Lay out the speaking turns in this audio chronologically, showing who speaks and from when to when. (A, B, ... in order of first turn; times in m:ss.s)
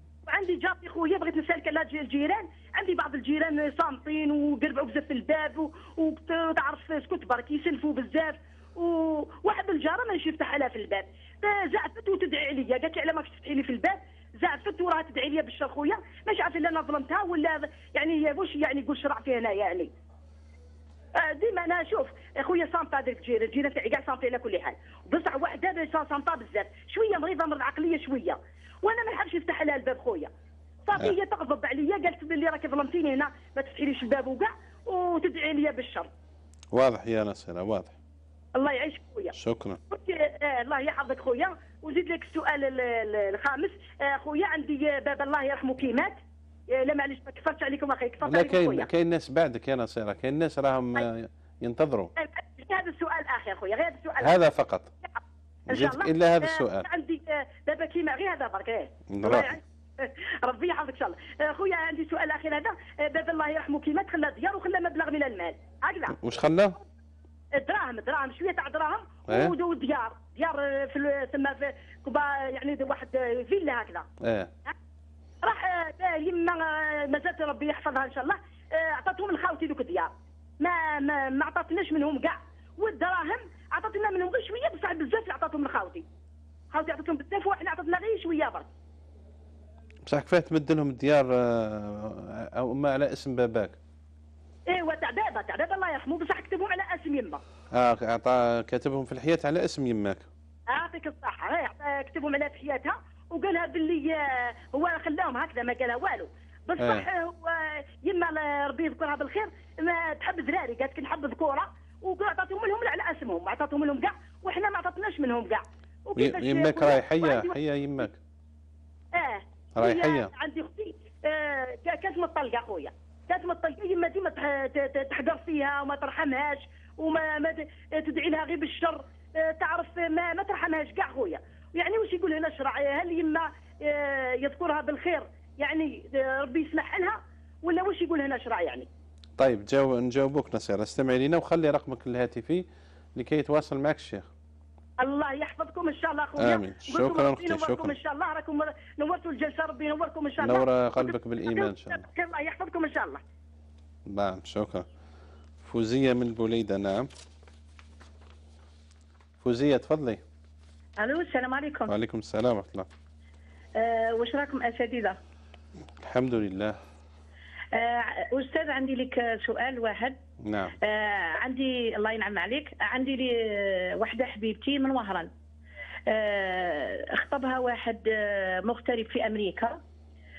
0:00.2-0:19.9 A
0:21.2-0:30.3 A
0:30.8-0:36.1 A
0:36.7-0:37.9 B
0:38.5-0:39.3 A
0:39.3-0:39.8 B
0:39.9-0:46.2 A
0:46.7-0:48.9 A
0:48.2-0:52.1 B
0:52.2-0:54.5 A
0:54.2-0:54.9 B
0:55.7-1:06.2 A
0:55.7-0:56.9 B
0:59.1-0:59.6 B
1:06.1-1:06.8 B
1:07.6-1:14.0 A
1:09.3-1:09.6 B
1:14.2-1:14.5 B
1:15.4-1:26.0 A
1:26.7-1:28.7 A
1:30.1-1:33.8 B
1:34.7-1:37.4 A
1:37.7-1:40.3 B
1:40.7-1:57.6 A
1:46.8-1:47.1 B
1:56.2-1:58.2 B
1:59.1-2:18.9 A
1:59.8-2:00.3 B
2:19.4-2:24.3 B
2:25.0-2:33.2 A
2:26.4-2:28.0 B
2:30.4-2:32.1 B
2:34.1-2:34.9 B
2:35.6-2:37.1 B
2:39.4-2:40.2 B
2:41.0-2:41.9 C
2:41.9-2:42.9 B
2:43.8-2:45.2 C
2:46.0-2:46.8 B
2:47.7-2:50.2 C
2:50.4-2:50.8 B
2:50.8-2:55.3 C
2:56.1-2:59.8 C